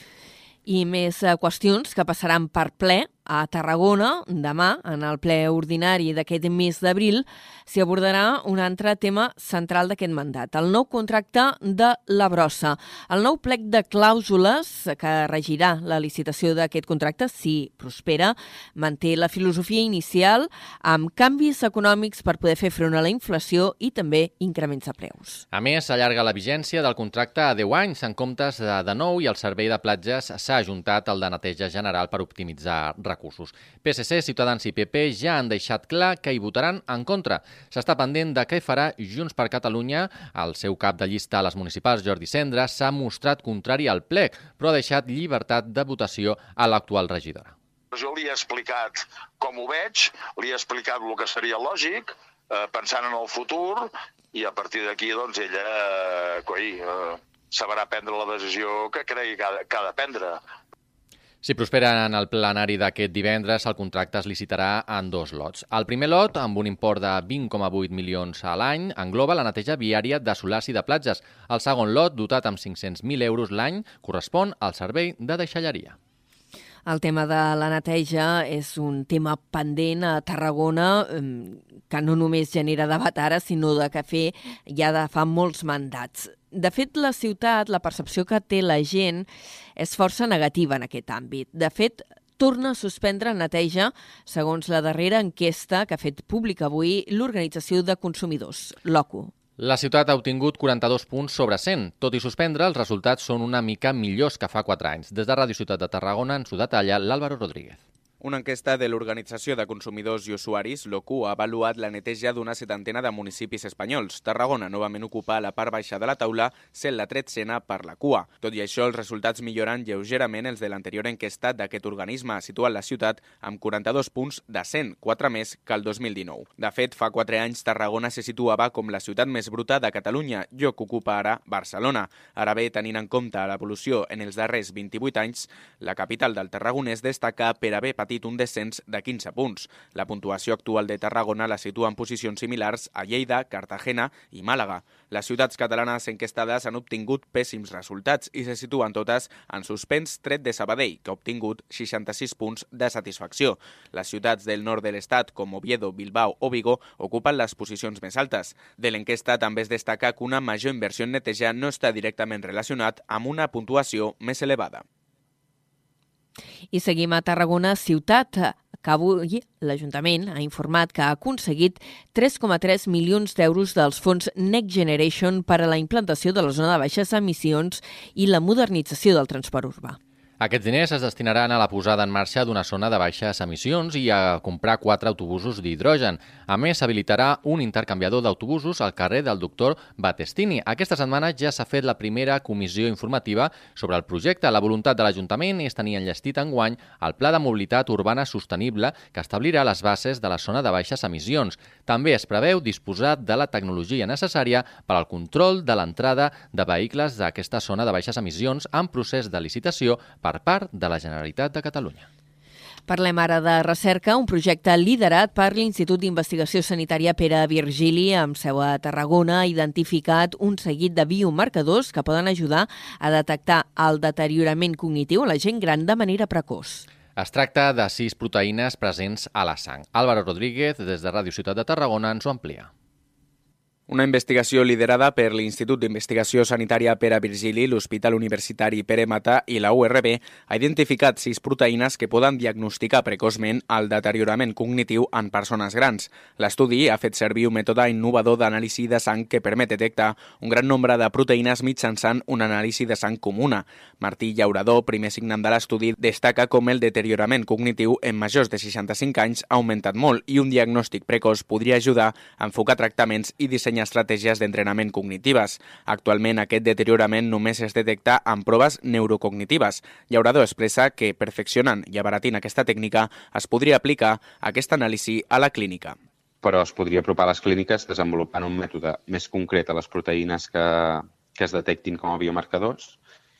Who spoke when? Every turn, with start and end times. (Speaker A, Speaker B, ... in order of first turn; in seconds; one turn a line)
Speaker A: 0.7-25.4
Speaker B: 25.5-47.5
Speaker C: 47.9-60.4
Speaker B: 61.4-76.0
Speaker A: 76.9-99.3
Speaker B: 99.6-107.8
Speaker D: 108.2-164.8
Speaker A: 166.7-180.0
Speaker B: 180.4-212.1
Speaker A: 212.9-226.9
Speaker B: 227.2-232.7
Speaker D: 233.9-276.0
Speaker E: 276.4-283.0